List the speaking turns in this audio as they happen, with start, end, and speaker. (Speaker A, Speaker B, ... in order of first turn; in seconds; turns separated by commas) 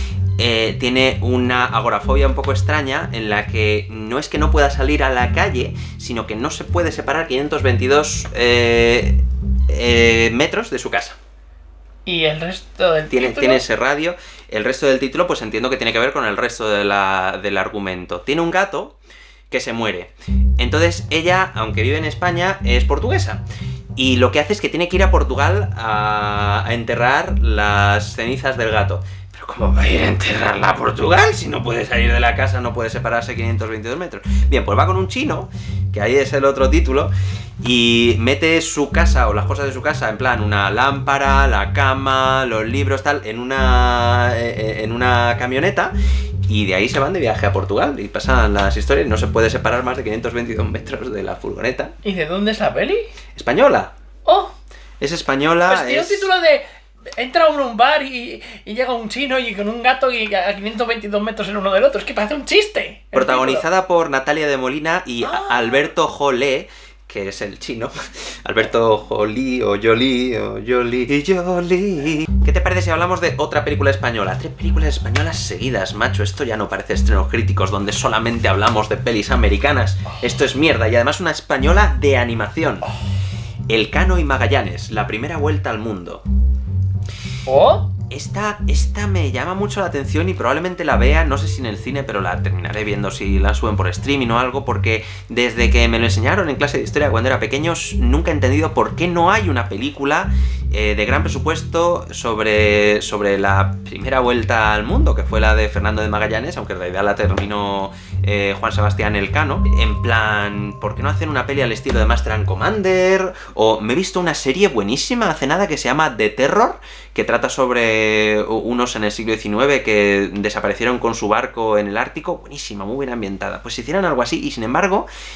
Speaker A: 0.4-11.2, Speaker B: 12.1-13.6, Speaker A: 13.1-19.0, Speaker A: 19.5-23.4, Speaker A: 24.0-45.9, Speaker A: 46.5-51.9, Speaker B: 52.0-53.1, Speaker A: 53.4-53.9, Speaker B: 54.2-54.5, Speaker A: 55.0-56.3, Speaker B: 55.7-56.6, Speaker B: 57.2-63.6, Speaker A: 63.1-82.9, Speaker B: 65.2-65.8, Speaker A: 83.7-86.2, Speaker B: 87.5-87.9, Speaker A: 88.1-125.1